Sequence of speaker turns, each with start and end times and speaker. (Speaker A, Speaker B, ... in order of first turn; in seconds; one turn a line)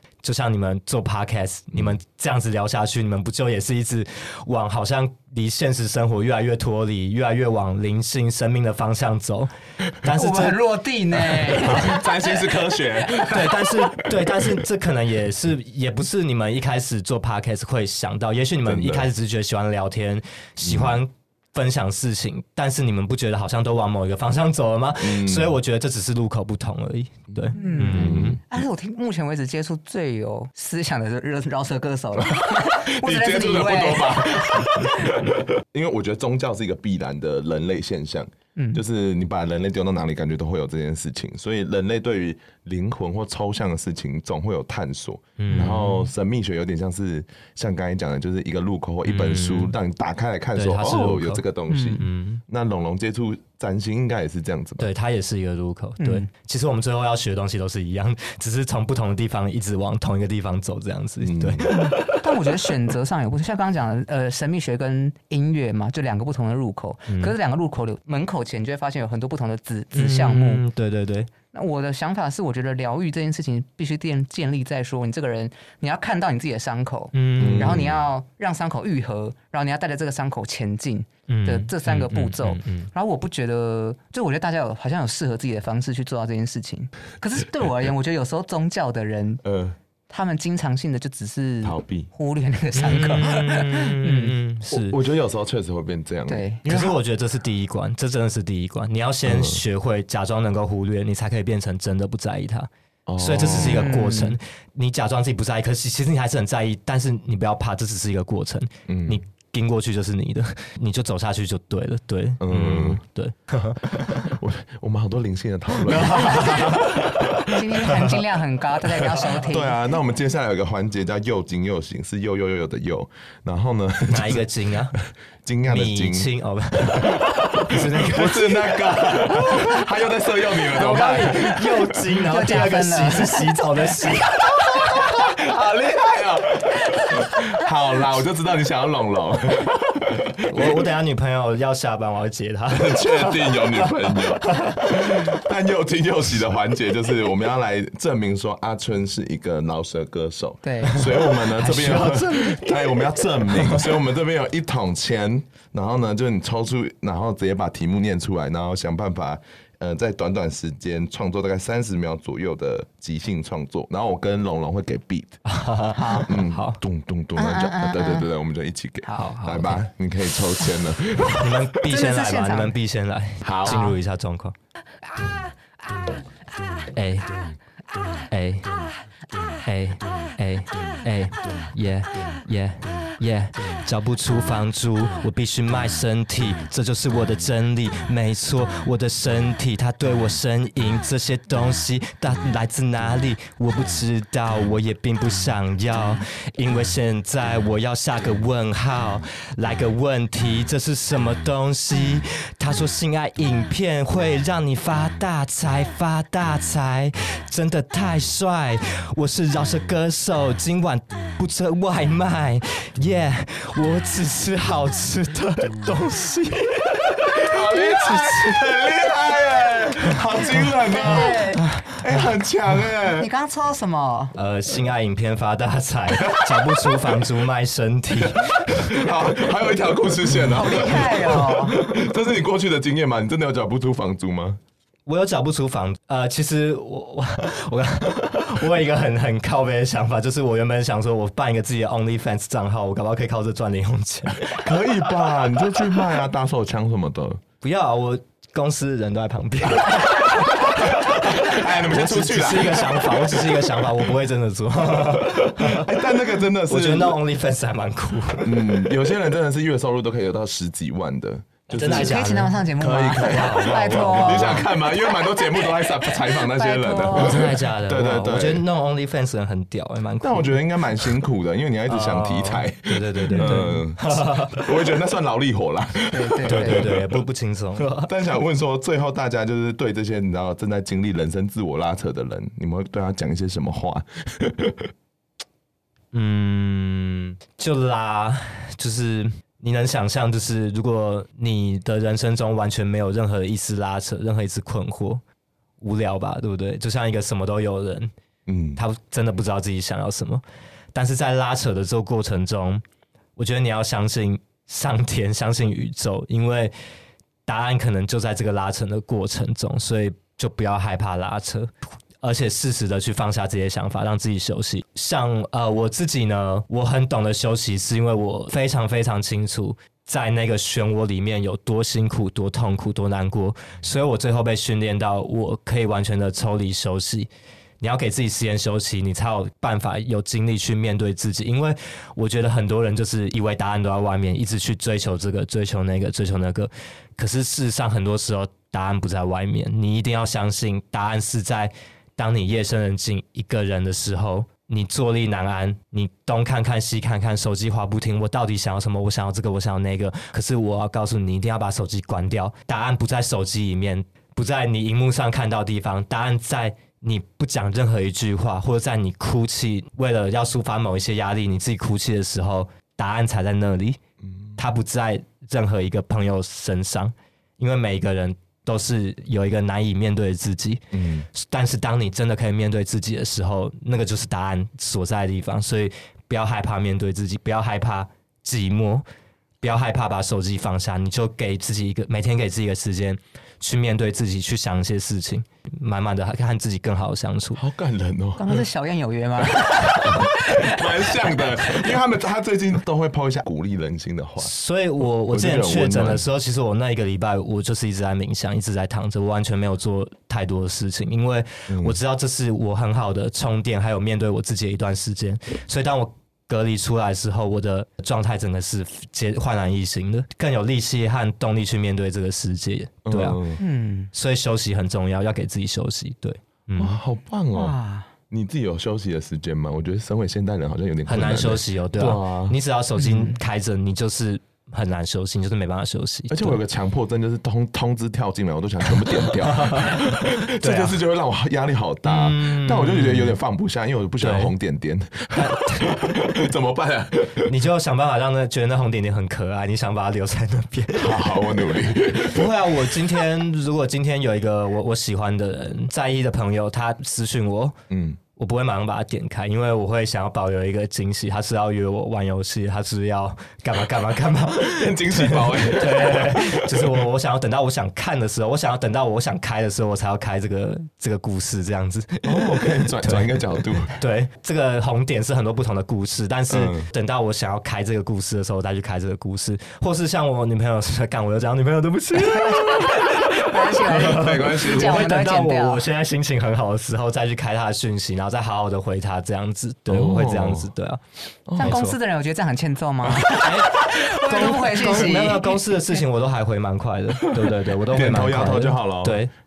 Speaker A: 0.2-10.6
Speaker B: 10.2-12.6
Speaker C: 11.3-14.4
Speaker A: 13.2-28.4
Speaker C: 18.6-19.1
Speaker C: 20.6-21.0
Speaker C: 25.0-25.5
Speaker C: 27.3-28.4
Speaker B: 27.5-35.1
Speaker C: 32.2-54.9
Speaker B: 38.5-38.8
Speaker A: 45.4-46.1
Speaker B: 45.5-45.8
Speaker A: 49.1-49.7
Speaker A: 50.5-51.4
Speaker B: 51.7-52.0
Speaker A: 52.0-52.4
Speaker A: 54.8-62.3
Speaker B: 56.0-56.3
Speaker C: 61.2-61.9
Speaker B: 62.2-70.6
Speaker A: 69.9-71.3
Speaker B: 71.5-89.4
Speaker A: 77.1-77.8
Speaker C: 77.4-78.0
Speaker A: 81.3-82.9
Speaker C: 89.4-89.8
Speaker B: 90.1-94.4
Speaker C: 91.6-92.1
Speaker A: 92.8-95.0
Speaker C: 94.7-97.0
Speaker B: 96.3-96.9
Speaker A: 96.7-114.2
Speaker C: 99.2-99.6
Speaker C: 103.0-104.0
Speaker B: 103.4-104.4
Speaker C: 108.9-109.2
Speaker C: 112.4-113.0
Speaker C: 114.0-118.1
Speaker A: 115.8-116.9
Speaker B: 117.5-119.8
Speaker C: 119.0-124.4
Speaker A: 124.1-125.0
Speaker C: 124.9-126.3
Speaker A: 125.7-129.8
Speaker C: 126.9-131.9
Speaker A: 130.7-134.4
Speaker B: 132.2-134.0
Speaker C: 135.0-140.8
Speaker A: 140.5-145.3
Speaker C: 142.7-165.4
Speaker B: 150.6-151.2
Speaker A: 150.9-153.8
Speaker A: 165.4-166.8
Speaker B: 165.9-166.4
Speaker C: 166.2-171.5
Speaker B: 167.3-168.3
Speaker A: 169.1-169.8
Speaker A: 171.3-174.5
Speaker B: 171.8-172.7
Speaker C: 173.4-173.9
Speaker B: 173.7-174.0
Speaker A: 176.9-177.6
Speaker A: 178.3-178.9
Speaker A: 179.6-218.6
Speaker C: 217.5-223.3
Speaker B: 217.7-218.5
Speaker B: 220.8-221.7
Speaker A: 221.6-221.9
Speaker B: 223.0-224.3
Speaker A: 224.3-228.9
Speaker C: 226.2-226.5
Speaker C: 228.2-234.6
Speaker B: 230.4-231.8
Speaker A: 235.1-244.5
Speaker C: 244.5-247.4
Speaker A: 247.6-255.9
Speaker C: 250.8-253.5
Speaker C: 255.2-257.2
Speaker A: 256.6-258.5
Speaker C: 258.4-262.2
Speaker A: 261.7-264.7
Speaker B: 261.8-265.4
Speaker C: 262.8-268.6
Speaker B: 266.1-267.5
Speaker A: 267.1-270.6
Speaker C: 270.2-277.1
Speaker A: 271.9-274.7
Speaker B: 273.4-273.7
Speaker B: 276.1-276.9
Speaker A: 276.4-278.1
Speaker C: 278.1-284.9
Speaker A: 286.1-295.2
Speaker A: 295.8-298.1
Speaker C: 298.5-298.8
Speaker A: 298.8-300.4
Speaker A: 300.9-302.8
Speaker A: 303.4-306.7
Speaker A: 307.4-364.0
Speaker C: 364.2-364.6
Speaker A: 364.6-379.0
Speaker C: 370.9-371.3
Speaker A: 379.6-387.6
Speaker C: 387.6-388.6
Speaker B: 388.4-391.2
Speaker C: 389.6-394.5
Speaker A: 394.4-413.4
Speaker C: 395.3-396.2
Speaker C: 401.7-402.0
Speaker C: 413.0-413.6
Speaker B: 413.6-414.1
Speaker A: 414.1-417.0
Speaker C: 416.8-417.8
Speaker B: 417.5-418.1
Speaker C: 418.3-422.6
Speaker A: 421.1-426.6
Speaker B: 422.9-423.4
Speaker C: 426.3-437.5
Speaker A: 429.4-431.0
Speaker A: 432.0-433.4
Speaker A: 434.2-434.5
Speaker A: 435.3-436.0
Speaker A: 437.4-441.4
Speaker C: 440.9-442.9
Speaker A: 442.1-447.8
Speaker C: 447.9-448.2
Speaker A: 448.4-481.0
Speaker C: 454.5-457.0
Speaker C: 462.2-463.9
Speaker C: 466.5-466.9
Speaker B: 472.1-475.8
Speaker C: 474.0-475.0
Speaker C: 479.9-480.7
Speaker C: 481.5-481.8
Speaker B: 481.6-485.7
Speaker A: 481.6-481.9
Speaker A: 483.2-489.3
Speaker C: 487.2-489.2